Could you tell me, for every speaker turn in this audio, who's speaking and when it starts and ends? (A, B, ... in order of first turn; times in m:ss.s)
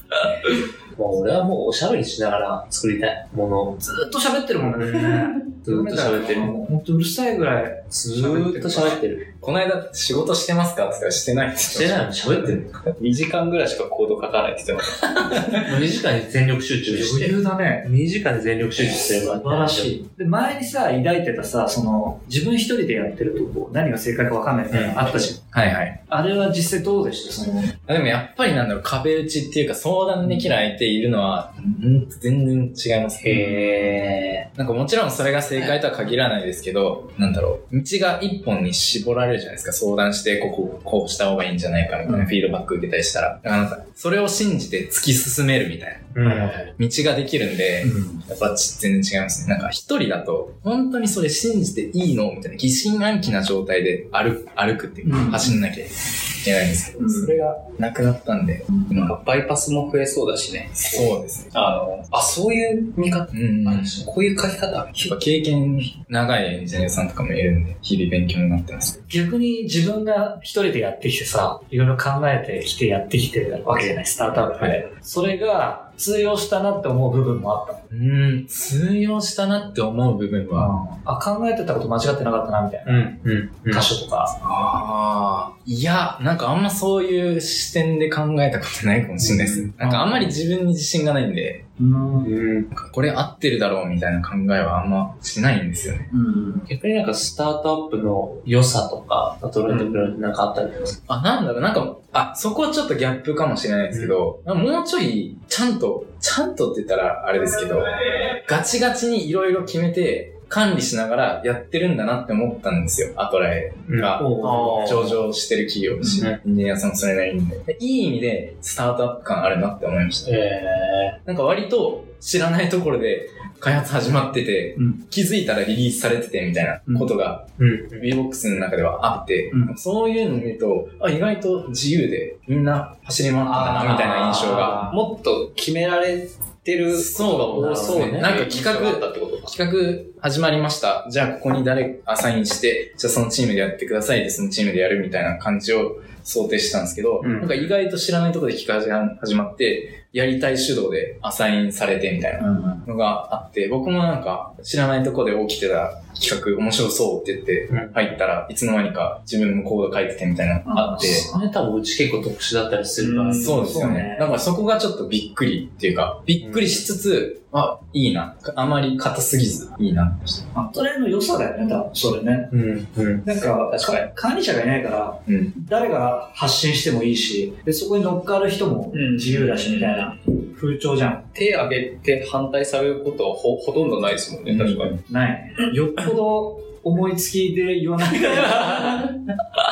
0:00.9-0:03.8 A
0:03.8-0:09.0 B
0:04.8-0:06.5 A
0:07.9-0:09.2 A
0:08.8-0:12.6 C
0:11.6-0:12.7 A
0:13.0-0:15.4 D
0:15.0-0:15.6 C
0:15.5-0:19.9 A
0:16.9-0:17.9 B
0:19.0-0:25.4 B
0:24.7-0:25.1 A
0:25.3-0:26.0 C
0:26.1-0:27.8 B
0:27.9-0:33.6 C
0:33.2-0:34.4 A
0:34.6-0:59.2 C
0:42.0-0:42.3 B
0:46.1-0:46.7 A
0:47.8-0:48.2 B
0:55.0-0:55.6 B
0:57.0-0:57.3 B
0:59.0-1:05.2 D
1:00.8-1:01.5 C
1:03.3-1:04.0 C
1:05.0-1:08.9 C
1:09.1-1:17.8 B
1:17.9-1:20.7 C
1:20.5-1:23.2 B
1:22.8-1:23.9 A
1:23.7-1:24.3 B
1:24.4-1:31.6 C
1:29.2-1:29.7 A
1:29.8-1:30.3 B
1:31.8-1:32.3 B
1:32.2-1:32.7 A
1:32.7-1:36.1 C
1:36.1-1:36.6 B
1:36.7-1:41.0 A
1:39.7-1:40.1 D
1:41.1-2:00.3 C
1:53.9-1:55.2 A
1:54.2-1:55.0 B
2:00.2-2:01.2 A
2:01.2-2:14.8 C
2:04.8-2:05.0 B
2:06.9-2:07.1 B
2:07.6-2:08.1 A
2:09.5-2:09.8 B
2:13.5-2:19.5 D
2:13.6-2:15.0 A
2:16.9-2:41.3 C
2:17.5-2:18.4 A
2:27.2-2:27.5 D
2:32.4-2:32.8 B
2:37.7-2:38.0 A
2:40.6-2:41.4 B
2:41.0-2:43.6 A
2:43.0-2:43.6 D
2:43.3-2:50.4 C
2:43.4-2:44.3 B
2:46.4-2:46.9 A
2:50.5-2:52.5 B
2:52.5-2:53.3 A
2:53.2-3:01.2 B
2:53.6-2:54.0 D
2:55.2-2:55.5 C
2:58.9-3:00.1 D
3:01.3-3:05.0 D
3:04.5-3:05.0 C
3:05.0-3:09.2 B